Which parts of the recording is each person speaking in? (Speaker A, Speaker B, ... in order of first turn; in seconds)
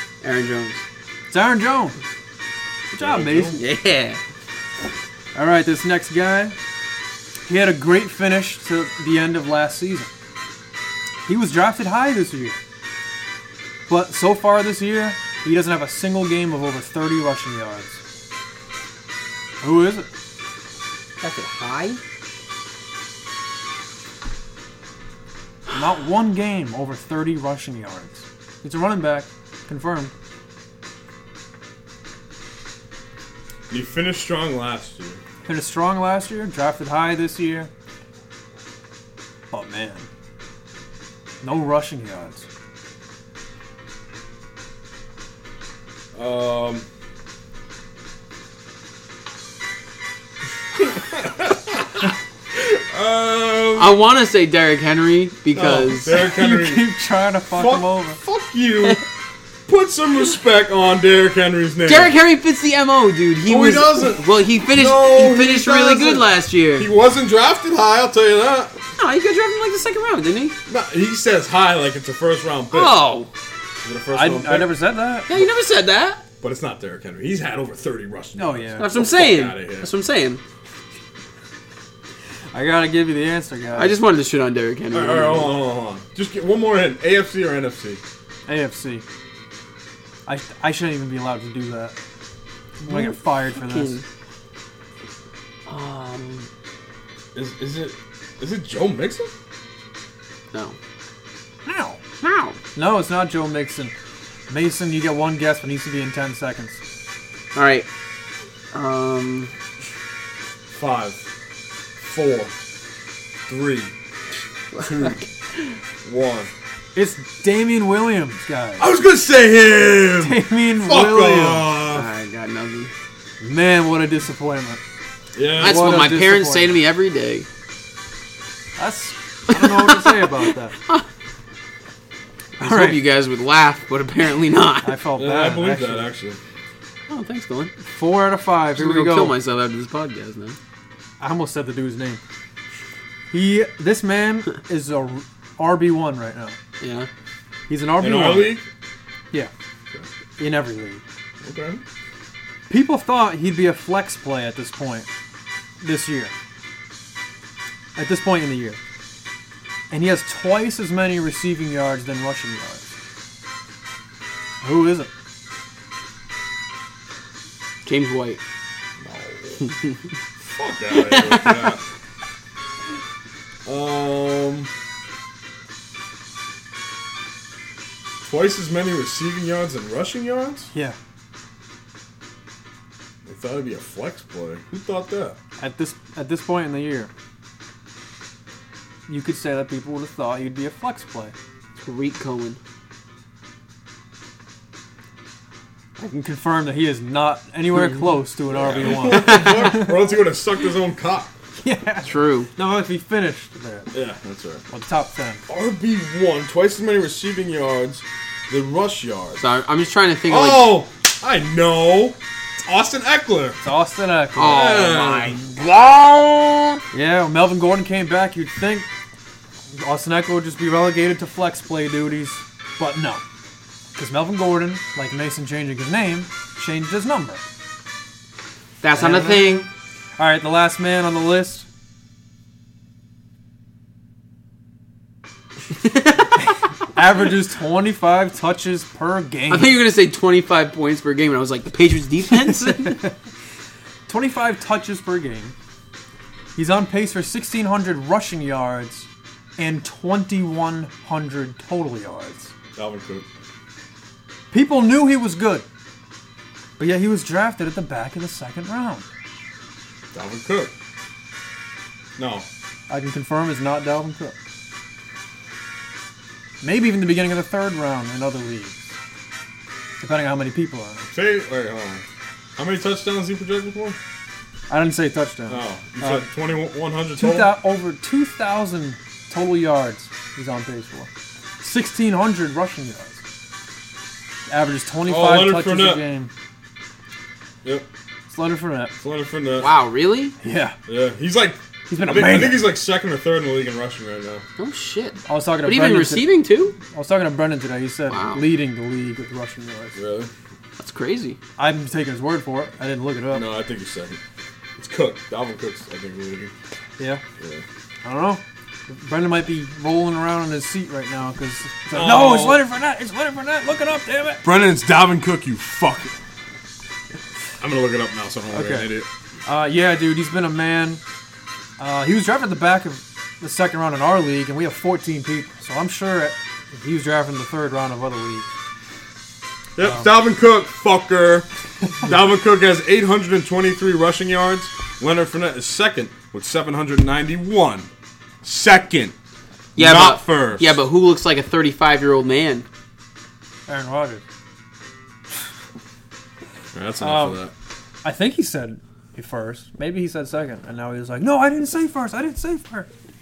Speaker A: 0.2-0.8, 3.5-4.2, 21.2-22.0, 53.8-56.2, 61.9-66.9, 69.0-70.6, 72.7-73.3, 75.3-76.2, 78.8-80.4, 83.8-85.5, 92.8-94.0, 95.7-96.5, 102.2-102.6, 107.5-107.9, 108.7-109.5, 114.7-115.8, 121.9-122.9, 125.6-127.5, 129.5-131.1, 132.6-135.0, 137.1-137.7, 138.8-140.6, 146.8-147.1, 167.8-168.4, 171.0-171.6, 191.8-192.6, 199.0-199.8, 202.0-202.5, 209.4-210.8, 214.3-216.8, 228.8-229.7, 235.7-236.5, 239.5-243.0, 289.6-290.4, 294.6-296.8, 298.1-298.4, 300.8-301.4, 339.8-342.7
Speaker B: 1.3-2.0, 2.9-3.6, 5.3-6.5, 7.5-10.1, 11.3-12.6, 13.9-18.0, 19.6-20.1, 25.7-30.1, 35.5-37.7, 39.5-40.1, 41.4-42.5, 56.1-58.2, 74.1-75.3, 78.4-78.9, 82.5-84.0, 88.5-89.0, 90.3-92.0, 92.8-94.0, 101.7-102.0, 102.8-103.9, 104.5-106.8, 117.0-118.9, 120.2-121.7, 123.4-124.8, 125.6-126.8, 128.8-130.8, 132.6-133.0, 134.8-136.1, 137.9-139.3, 141.2-142.2, 143.3-146.6, 147.7-148.6, 150.4-151.0, 152.7-155.1, 155.8-156.3, 158.0-158.8, 159.9-162.9, 164.6-165.1, 185.6-187.1, 189.1-191.3, 196.0-200.0, 201.6-203.9, 204.7-205.4, 213.6-214.7, 216.9-218.9, 219.7-223.2, 223.9-227.4, 228.9-231.7, 236.8-239.8, 242.3-243.2, 244.1-245.5, 246.6-252.5, 254.5-255.7, 256.8-259.1, 262.9-264.4, 266.6-269.0, 270.0-271.1, 274.7-276.3, 277.2-281.1, 281.6-283.2, 284.5-286.3, 288.3-288.9, 290.4-290.8, 291.9-292.7, 295.3-300.0, 301.6-303.5, 307.0-307.2, 308.0-314.4, 318.5-318.9, 319.5-321.0, 321.8-328.5, 329.8-330.1, 343.7-344.2, 347.0-347.4, 348.0-352.9
Speaker C: 3.0-3.6, 33.7-35.2, 46.1-46.9, 50.7-54.0, 55.5-56.9, 57.5-59.0, 59.7-62.1, 63.5-68.8, 70.7-73.0, 73.8-74.8, 76.4-79.9, 84.9-88.0, 97.3-99.3, 110.7-111.3, 112.0-112.6, 113.5-113.9, 114.8-115.2, 116.0-116.5, 118.8-122.1, 125.3-125.8, 135.2-136.4, 148.0-148.7, 151.4-151.8, 169.0-169.7, 170.4-171.8, 173.7-174.7, 178.2-180.7, 183.2-185.4, 198.5-201.3, 203.9-204.7, 205.5-209.4, 210.3-213.6, 214.4-215.4, 252.8-253.3, 260.1-260.7, 262.2-262.5, 271.1-272.0, 272.6-274.0, 275.5-277.6, 285.1-286.0, 289.0-289.7, 290.9-294.4, 299.9-300.3, 303.3-304.2, 304.8-306.5, 307.4-307.6, 311.9-312.6, 314.4-316.2, 317.6-319.1, 329.8-337.9, 338.4-339.1, 339.8-340.8, 346.7-347.5